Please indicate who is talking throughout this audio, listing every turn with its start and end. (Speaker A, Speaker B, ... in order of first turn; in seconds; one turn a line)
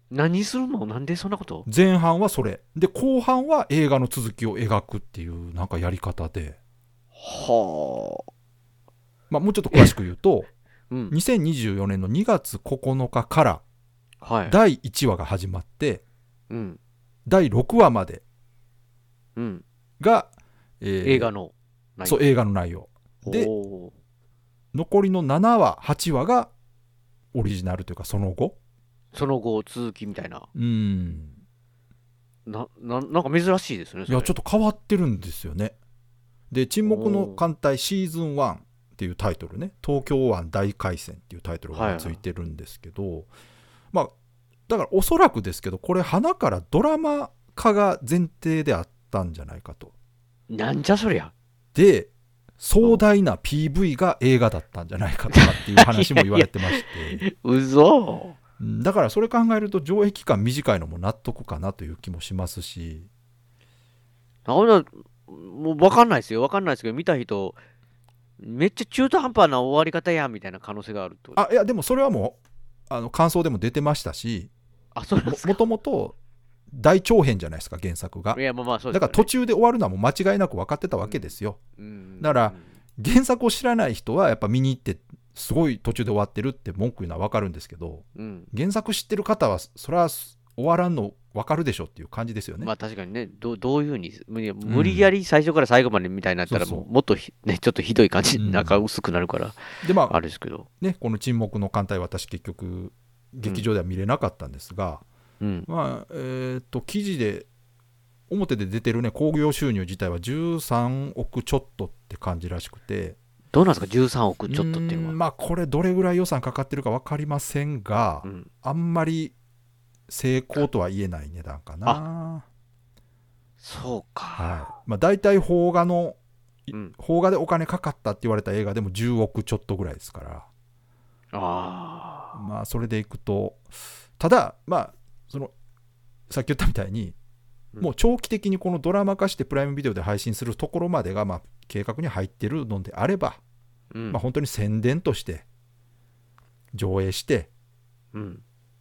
Speaker A: 0.1-1.6
Speaker B: 1.6-6.6
Speaker A: 7.2-8.2
Speaker B: 9.3-10.5
Speaker A: 10.9-11.2
Speaker B: 11.1-13.6
Speaker A: 14.2-14.6
Speaker B: 14.5-16.0
Speaker A: 16.5-16.8
Speaker B: 17.2-18.2
Speaker A: 19.4-19.6
Speaker B: 20.0-20.3
Speaker B: 20.8-21.3
Speaker A: 21.0-22.3
Speaker B: 22.0-23.5
Speaker A: 23.2-23.9
Speaker B: 24.7-26.5
Speaker B: 27.3-28.6
Speaker A: 29.1-30.4
Speaker B: 30.5-31.4
Speaker A: 32.5-34.3
Speaker B: 34.1-35.8
Speaker B: 36.5-43.3
Speaker A: 36.8-37.4
Speaker A: 41.7-42.2
Speaker B: 44.7-49.9
Speaker A: 50.5-51.3
Speaker B: 51.7-57.2
Speaker A: 55.3-58.4
Speaker B: 58.6-63.1
Speaker A: 64.5-67.6
Speaker A: 68.4-71.4
Speaker B: 71.4-72.4
Speaker B: 72.9-74.5
Speaker A: 74.9-75.6
Speaker B: 75.2-76.2
Speaker B: 76.7-81.6
Speaker A: 78.3-79.3
Speaker A: 81.0-82.7
Speaker B: 82.2-92.7
Speaker A: 88.2-88.5
Speaker A: 92.6-100.7
Speaker B: 94.7-95.1
Speaker B: 96.5-96.8
Speaker B: 98.4-98.8
Speaker B: 99.8-100.2
Speaker B: 100.8-105.0
Speaker A: 105.4-105.7
Speaker B: 105.7-107.5
Speaker B: 108.3-113.2
Speaker A: 113.5-115.2
Speaker B: 114.5-119.3
Speaker A: 118.2-118.5
Speaker B: 120.1-122.4
Speaker A: 123.6-124.7
Speaker B: 124.4-126.2
Speaker B: 126.7-130.5
Speaker A: 126.7-127.0
Speaker A: 131.3-132.4
Speaker B: 132.3-133.6
Speaker B: 134.2-135.5
Speaker B: 136.3-137.2
Speaker B: 137.8-143.4
Speaker A: 143.9-144.2
Speaker B: 144.1-145.4
Speaker B: 146.7-147.5
Speaker A: 148.1-148.4